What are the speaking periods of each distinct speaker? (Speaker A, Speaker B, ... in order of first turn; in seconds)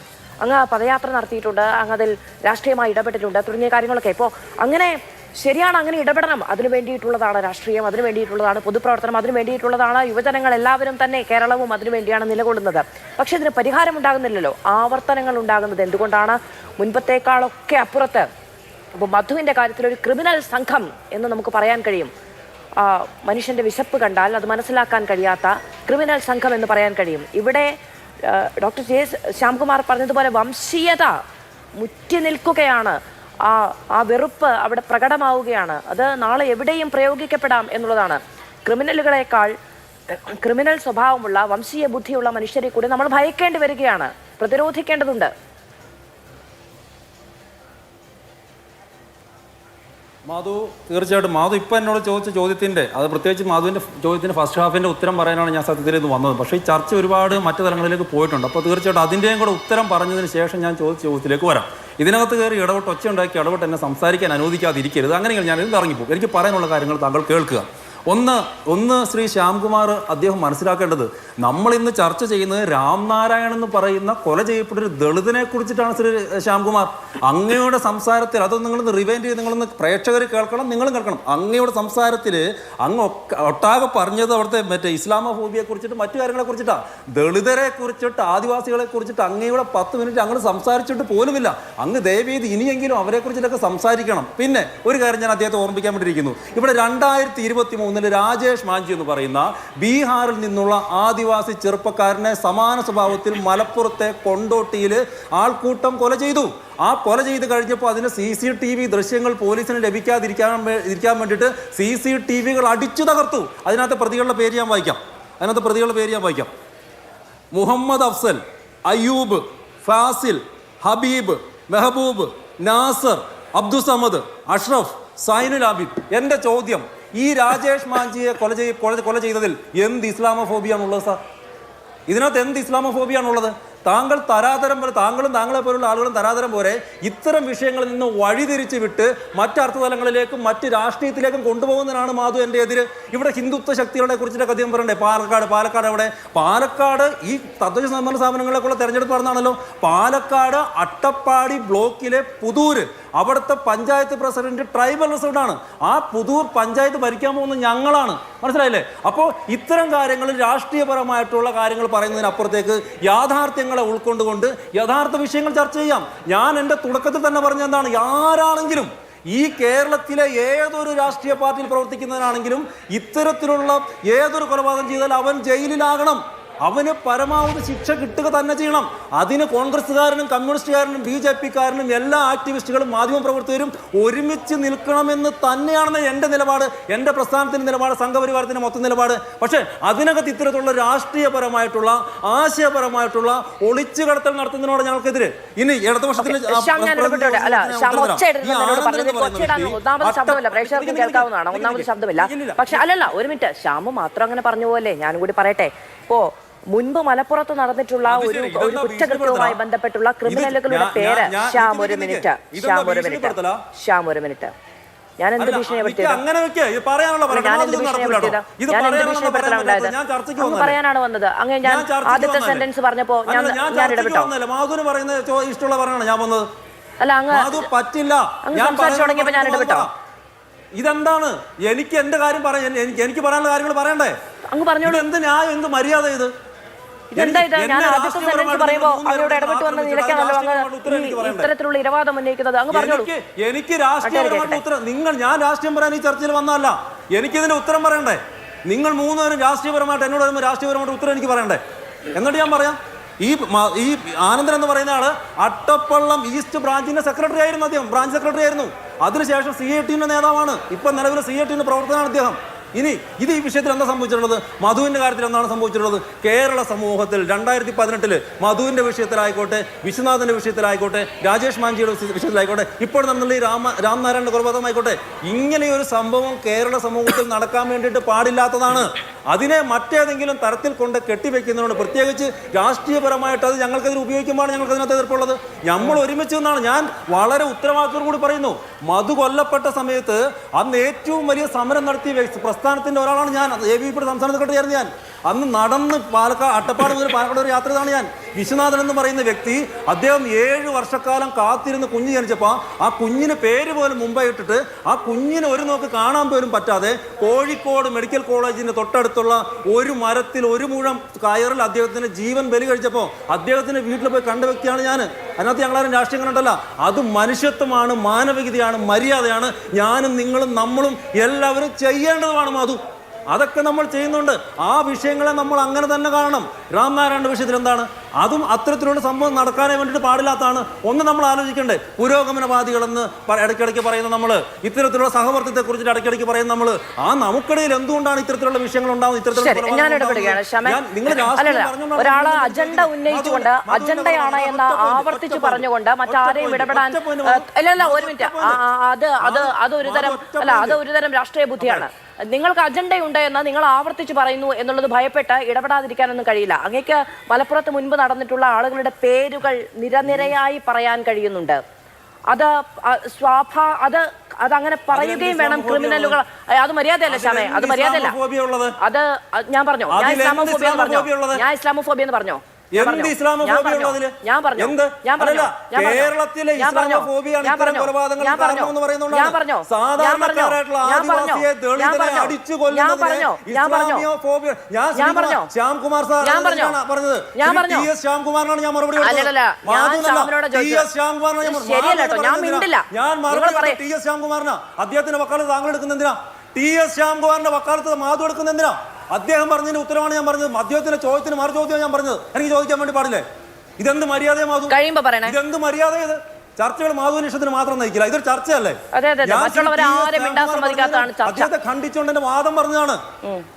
Speaker A: 0.4-18.3, 18.9-22.1, 22.8-27.7, 28.2-31.2, 31.8-39.5, 40.1-45.3, 196.2-214.5, 215.2-216.2, 217.3-224.3, 227.0-227.7, 228.4-229.9, 234.5-235.1, 237.1-243.1, 244.0-244.6, 339.3-361.6, 362.3-368.1, 368.8-384.1, 384.9-385.5, 386.2-386.8, 387.4-387.9, 389.0-390.9, 391.4-393.8, 404.7-405.4, 408.9-411.5
Speaker B: 50.3-116.5, 117.5-131.2, 132.1-202.8, 208.1-209.6, 210.2-213.6, 215.4-220.8, 221.6-222.7, 223.3-226.5, 227.3-229.9, 230.7-234.2, 234.8-236.3, 237.1-241.5, 242.7-251.6, 252.1-348.6, 349.2-350.8, 351.6-351.8, 364.9-366.2, 367.1-368.8, 369.9-371.4, 372.7-403.2, 403.8-404.7, 405.2-413.0